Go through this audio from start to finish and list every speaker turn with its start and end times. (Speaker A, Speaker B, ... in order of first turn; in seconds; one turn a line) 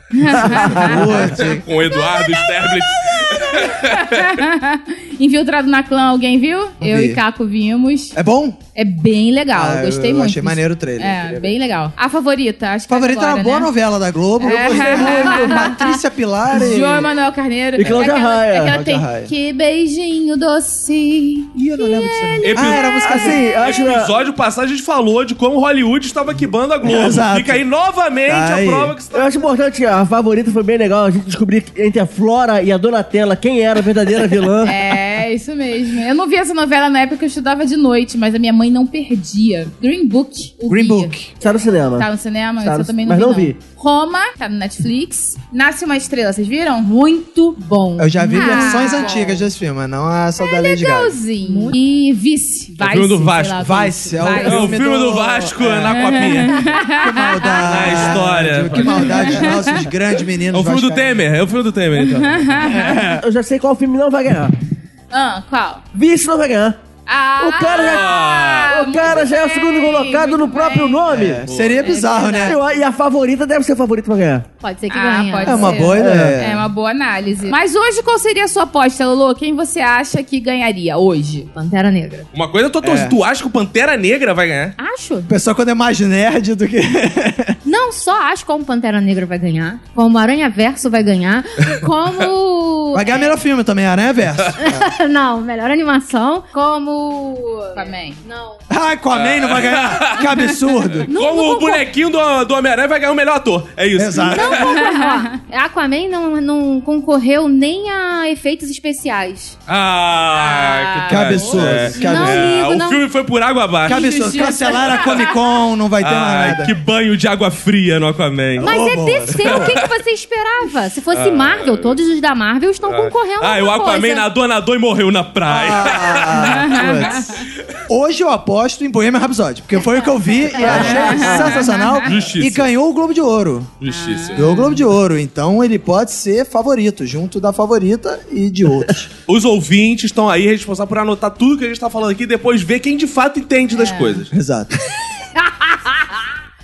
Speaker A: 0.1-1.2
Speaker B: 0.4-1.7
Speaker C: 0.6-1.0
Speaker D: 0.9-4.4
Speaker A: 3.5-8.2
Speaker B: 6.8-7.2
Speaker B: 8.2-8.6
Speaker A: 8.8-13.7
Speaker B: 9.5-11.5
Speaker B: 12.9-17.1
Speaker A: 14.4-23.3
Speaker E: 15.1-15.5
Speaker C: 17.8-18.8
Speaker B: 17.8-18.1
Speaker B: 18.7-19.3
Speaker B: 21.6-23.7
Speaker D: 22.4-29.5
Speaker C: 22.5-24.1
Speaker B: 26.8-27.6
Speaker B: 28.3-29.0
Speaker C: 29.1-35.0
Speaker A: 34.6-41.1
Speaker B: 40.7-41.3
Speaker C: 41.4-42.1
Speaker A: 41.9-47.0
Speaker C: 42.6-43.6
Speaker E: 46.8-49.3
Speaker B: 48.0-51.2
Speaker A: 48.2-49.5
Speaker A: 50.4-54.8
Speaker E: 51.4-51.8
Speaker D: 52.8-53.7
Speaker B: 53.6-61.2
Speaker D: 54.3-56.7
Speaker A: 55.9-58.1
Speaker D: 57.5-59.6
Speaker A: 58.9-59.9
Speaker D: 60.5-62.7
Speaker A: 62.0-63.0
Speaker B: 62.6-63.2
Speaker C: 62.8-64.5
Speaker A: 65.1-65.8
Speaker C: 65.9-66.8
Speaker A: 67.1-71.1
Speaker C: 67.4-68.2
Speaker D: 67.7-69.1
Speaker C: 68.7-71.4
Speaker B: 71.1-72.6
Speaker D: 71.4-71.9
Speaker A: 71.8-72.6
Speaker C: 72.4-74.5
Speaker E: 74.6-75.8
Speaker A: 74.9-81.5
Speaker B: 75.4-76.7
Speaker C: 75.9-76.4
Speaker E: 81.5-82.3
Speaker D: 82.3-84.8
Speaker B: 82.8-83.2
Speaker E: 84.8-85.3
Speaker B: 85.3-87.6
Speaker E: 87.7-93.3
Speaker B: 92.9-94.9
Speaker E: 94.6-98.6
Speaker A: 97.8-98.2
Speaker B: 98.7-101.1
Speaker D: 99.1-104.8
Speaker E: 101.1-101.8
Speaker B: 104.0-104.6
Speaker E: 104.3-109.6
Speaker A: 104.7-105.3
Speaker D: 109.7-114.2
Speaker A: 110.3-112.0
Speaker B: 111.1-112.6
Speaker E: 111.9-113.0
Speaker B: 113.9-116.8
Speaker A: 113.9-115.4
Speaker D: 114.7-115.2
Speaker D: 116.0-120.0
Speaker E: 118.6-124.3
Speaker B: 118.6-119.8
Speaker D: 121.1-122.0
Speaker D: 122.8-127.8
Speaker B: 125.5-127.3
Speaker A: 126.4-127.3
Speaker B: 127.9-133.8
Speaker A: 130.6-132.1
Speaker C: 130.6-131.6
Speaker E: 130.7-131.3
Speaker D: 132.0-132.7
Speaker D: 133.8-134.5
Speaker A: 133.9-134.8
Speaker B: 134.3-139.1
Speaker D: 139.3-144.3
Speaker A: 143.7-144.2
Speaker B: 144.3-144.7
Speaker A: 145.4-146.1